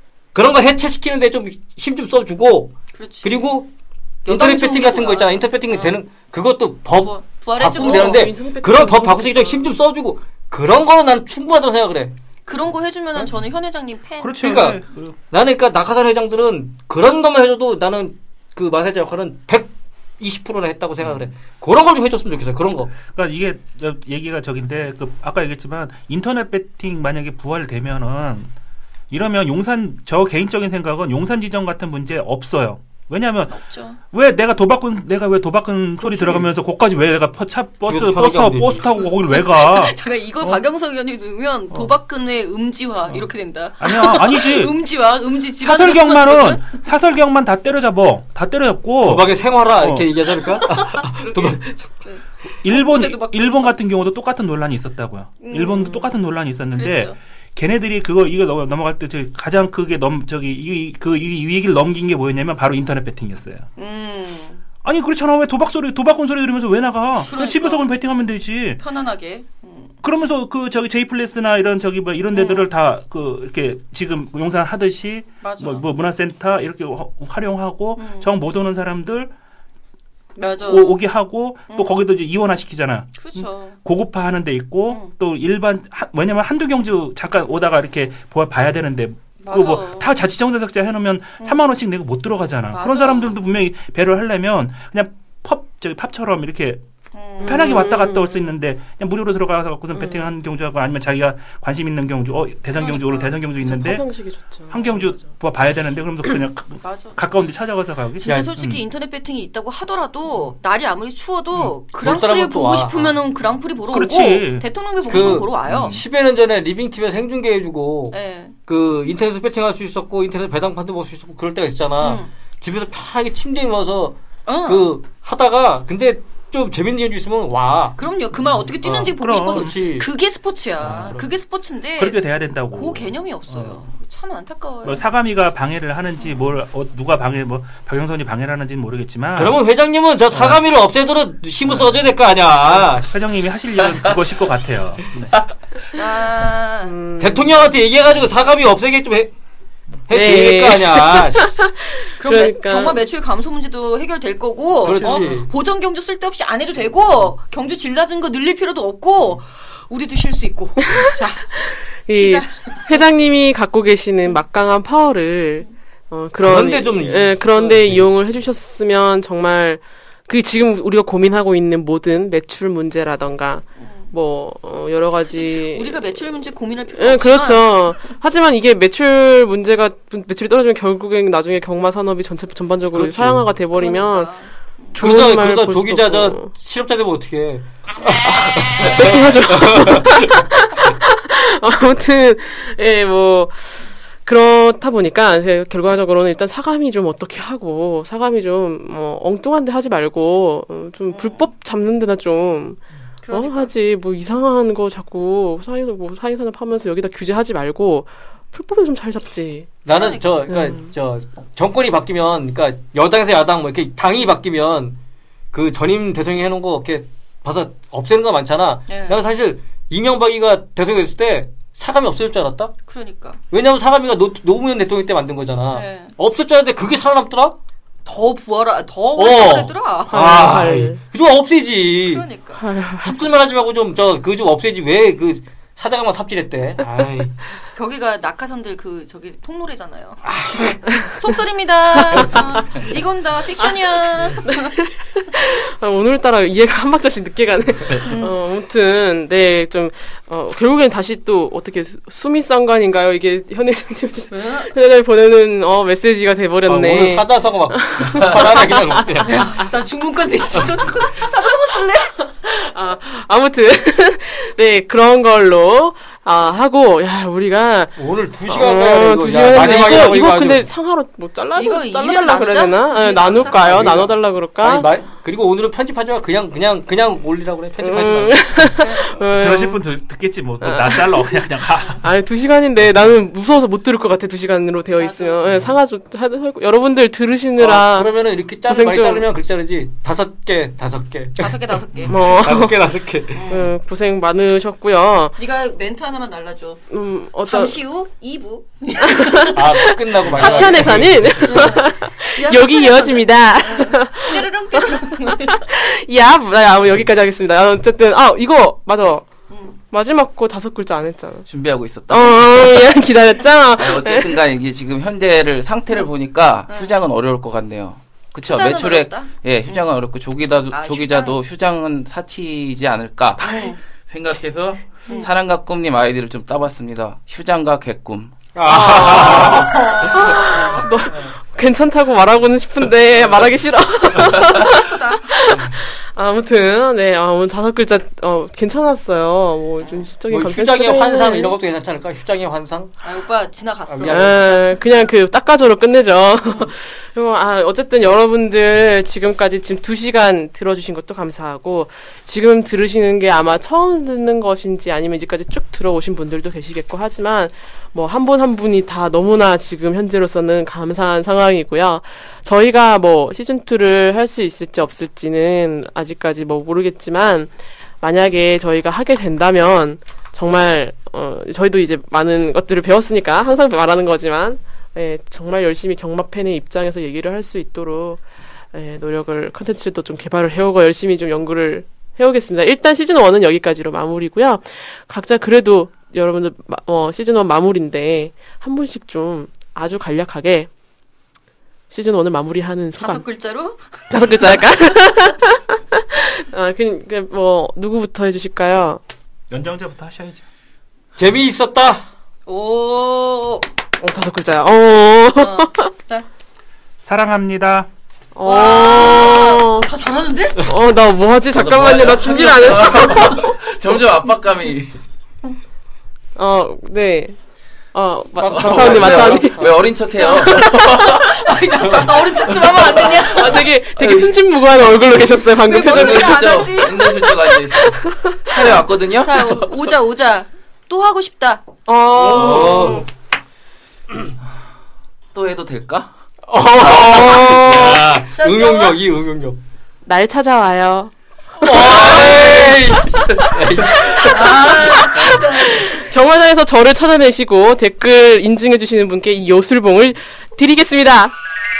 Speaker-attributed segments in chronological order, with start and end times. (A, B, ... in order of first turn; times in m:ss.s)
0:00.3-0:03.7 A
0:02.9-0:03.6 B
0:04.2-0:06.0 B
0:04.2-0:12.1 A
0:06.9-0:08.3 B
0:07.8-0:09.8 C
0:12.4-0:14.4 B
0:14.2-0:15.2 D
0:14.4-0:23.0 A
0:21.0-0:21.3 D
0:23.0-0:28.5 D
0:29.1-0:33.6 D
0:33.5-0:34.0 B
0:34.1-0:40.6 D
0:36.0-0:36.5 A
0:37.8-0:39.0 A
0:39.2-0:46.8 B
0:43.8-0:44.8 D
0:45.6-0:50.2 D
0:49.0-0:52.0 A
0:50.5-0:53.8 B
0:52.6-1:03.7 D
0:55.4-0:56.1 B
0:56.7-0:57.2 B
1:03.8-1:04.6 B
1:04.8-1:08.8 D
1:07.2-1:08.0 B
1:08.8-1:10.0 B
1:10.0-1:19.3 D
1:12.3-1:12.7 B
1:15.4-1:15.8 B
1:18.0-1:18.3 B
1:20.4-1:21.0 B
1:20.6-1:36.8 D
1:21.7-1:22.0 B
1:23.2-1:23.8 B
1:24.9-1:25.1 B
1:29.4-1:30.1 B
1:31.4-1:31.6 B
1:32.7-1:33.3 B
1:37.1-1:37.8 B
1:37.4-1:48.8 D
1:37.4-1:38.5 C
1:39.9-1:40.3 C
1:42.7-1:43.3 B
1:43.6-1:45.2 C
1:46.8-1:47.2 B
1:48.2-1:48.5 A
1:48.2-1:56.0 B
1:52.0-1:53.2 A
1:53.9-1:56.0 D
1:55.1-2:08.0 A
1:58.1-1:58.5 B
2:02.0-2:02.3 B
2:04.4-2:05.0 B
2:08.0-2:15.0 B
2:08.8-2:10.1 A
2:09.2-2:09.8 D
2:10.8-2:11.2 D
2:10.8-2:11.2 A
2:12.0-2:13.8 D
2:14.8-2:19.6 D
2:19.4-2:23.1 A
2:20.3-2:20.6 D
2:21.6-2:22.0 D
2:22.7-2:25.3 D
2:25.9-2:27.0 B
2:26.8-2:27.6 C
2:27.2-2:29.3 A
2:30.1-2:31.5 A
2:30.1-2:33.0 C
2:32.2-2:43.0 B
2:34.8-2:35.5 A
2:34.8-2:35.4 C
2:40.8-2:55.9 C
2:46.4-2:48.1 A
2:53.8-2:54.1 B
2:55.3-2:57.8 B
2:56.9-3:04.3 C
3:02.9-3:03.4 A
3:03.7-3:05.0 B
3:04.9-3:06.5 C
3:05.0-3:10.5 A
3:08.2-3:22.8 C
3:21.1-3:21.4 B
3:23.2-3:23.7 B
3:23.3-3:29.7 C
3:29.8-3:35.0 A
3:29.9-3:30.5 B
3:30.5-3:30.9 C
3:35.5-3:42.7 A
3:38.9-3:39.2 B
3:42.9-3:43.4 B
3:43.5-3:47.6 A
3:45.7-3:46.1 B
3:48.0-3:50.4 B
3:49.2-3:52.2 A
3:50.1-3:51.0 C
3:52.0-3:52.6 B
3:52.6-3:53.2 C
3:53.0-3:57.3 A
3:57.7-4:04.8 B
4:00.3-4:00.8 A
4:02.3-4:02.6 C
4:04.4-4:19.4 C
4:07.9-4:08.4 B
4:14.3-4:14.7 B
4:16.7-4:19.3 A
4:19.2-4:22.1 B
4:22.4-4:28.0 C
4:28.0-4:30.7 A
4:28.5-4:34.9 C
4:31.5-4:33.8 B
4:33.4-4:38.5 A
4:37.8-4:39.8 C
4:38.6-4:39.3 B
4:39.4-4:42.0 D
4:40.6-4:41.4 C
4:42.0-4:48.1 C
4:45.0-4:45.4 B
4:47.6-4:53.5 A
4:48.7-4:49.3 C
4:51.4-4:52.6 B
4:52.1-4:52.9 C
4:53.3-4:53.7 B
4:53.5-4:55.4 C
4:55.4-4:56.8 B
4:56.9-4:57.8 C
4:57.4-4:59.6 B
4:59.0-5:09.2 C
4:59.5-5:01.7 A
5:01.4-5:05.6 B
5:09.5-5:09.8 B
5:09.9-5:11.5 C
5:11.5-5:12.7 E
5:12.1-5:14.4 C
5:13.8-5:28.4 E
5:16.7-5:16.9 B
5:18.4-5:19.9 B
5:20.7-5:21.4 B
5:23.4-5:23.8 B
5:25.1-5:25.3 B
5:28.5-5:30.3 A
5:28.6-5:41.5 C
5:29.6-5:30.7 B
5:34.2-5:35.4 B
5:39.8-5:40.1 B
5:40.3-5:43.0 A
5:43.0-5:45.0 B
5:43.9-5:44.4 A
5:44.1-6:18.2 C
6:18.7-6:30.7 C
6:31.9-6:33.2 C
6:33.0-6:34.7 B
6:34.1-6:39.0 C
6:39.5-6:40.4 D
6:41.2-6:42.1 A
6:42.4-6:43.7 B
6:44.0-6:45.9 C
6:45.3-6:46.2 B
6:47.0-6:47.9 D
6:48.3-6:49.9 C
6:48.4-6:50.6 B
6:50.6-6:53.6 C
6:51.5-6:55.0 E
6:56.4-6:57.4 C
6:57.9-6:59.6 C
6:58.4-6:59.8 A
6:58.4-7:03.3 E
7:00.2-7:00.5 B
7:00.4-7:01.0 C
7:01.0-7:03.6 B
7:01.8-7:03.1 A
7:03.1-7:06.7 C
7:05.6-7:07.6 B
7:05.7-7:09.7 E
7:08.0-7:08.5 C
7:08.5-7:11.7 B
7:11.9-7:13.1 C
7:12.2-7:13.0 A
7:12.3-7:12.6 E
7:15.3-7:16.1 E
7:16.5-7:19.6 A
7:16.8-7:17.8 C
7:17.1-7:18.0 E
7:18.3-7:19.0 B
7:20.0-7:21.1 C
7:21.6-7:23.3 B
7:21.6-7:24.6 A
7:24.0-7:31.3 C
7:24.2-7:25.9 B
7:24.5-7:25.3 E